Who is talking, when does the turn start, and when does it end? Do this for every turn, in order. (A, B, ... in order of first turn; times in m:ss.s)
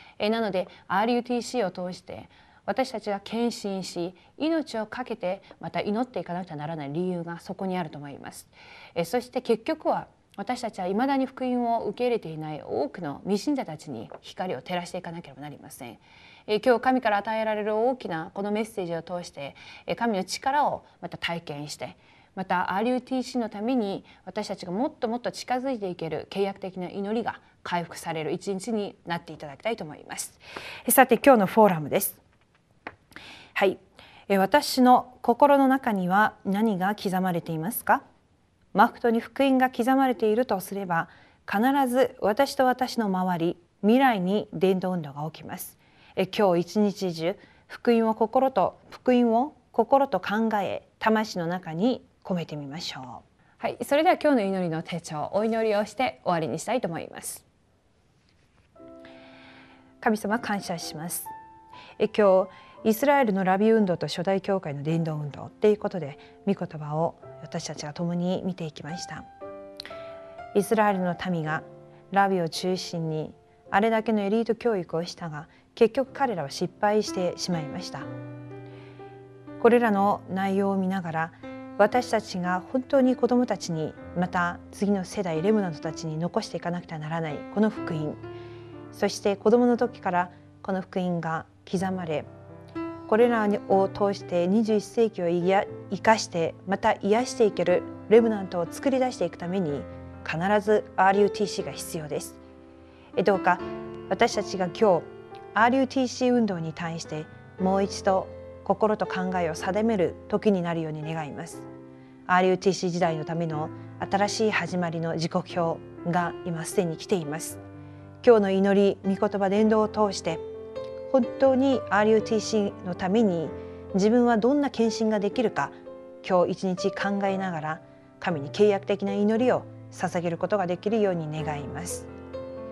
0:00.2-0:32.2 A
0:33.6-0:38.0 A
0:38.7-0:57.4 A
1:00.0-1:01.3 A
1:02.0-1:09.2 A
1:10.6-1:18.1 A
1:19.6-1:28.2 A
1:28.9-1:32.3 A
1:33.1-1:42.4 A
1:43.2-1:51.7 A
1:52.3-1:57.6 A
1:58.2-2:00.4 A
2:01.1-2:12.1 A